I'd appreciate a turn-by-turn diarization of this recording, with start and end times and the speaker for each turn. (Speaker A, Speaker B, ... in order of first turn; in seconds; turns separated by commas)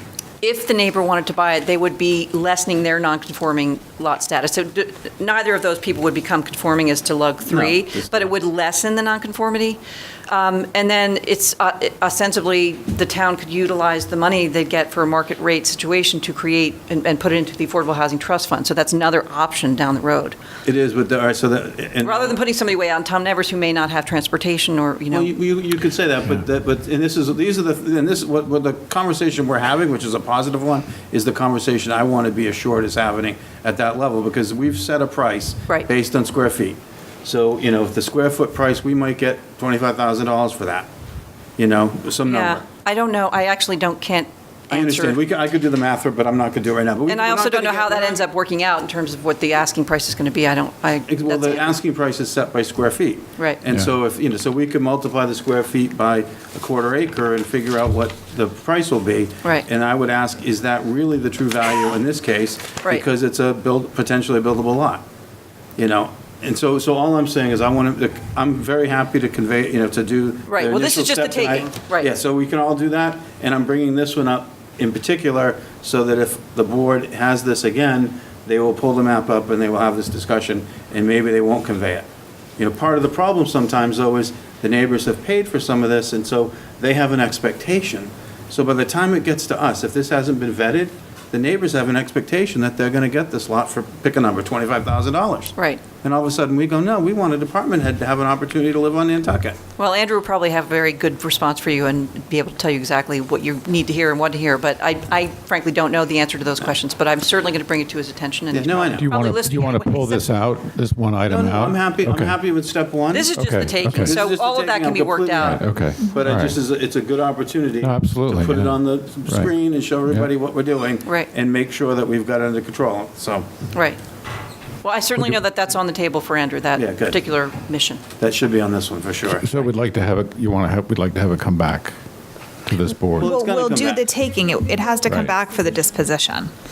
Speaker A: 0.4-20.4, Speaker B: 7.5-8.3, Speaker B: 20.6-22.4, Speaker A: 22.0-25.4, Speaker B: 25.1-40.9, Speaker B: 41.6-42.6, Speaker A: 42.2-45.2, Speaker B: 44.7-48.2, Speaker A: 47.0-51.7, Speaker B: 51.1-65.0, Speaker B: 65.8-99.6, Speaker A: 70.5-72.1, Speaker A: 95.5-95.8, Speaker A: 99.8-110.3, Speaker B: 108.5-109.1, Speaker C: 109.0-112.4, Speaker B: 111.2-113.3, Speaker A: 113.1-115.6, Speaker C: 113.3-114.2, Speaker B: 114.0-123.5, Speaker C: 115.4-116.6, Speaker C: 117.8-119.5, Speaker A: 123.7-124.0, Speaker A: 124.8-128.0, Speaker B: 126.8-127.2, Speaker B: 128.2-129.5, Speaker C: 129.3-132.0, Speaker C: 132.6-133.3, Speaker B: 133.2-134.1, Speaker D: 133.2-136.5, Speaker C: 135.1-135.3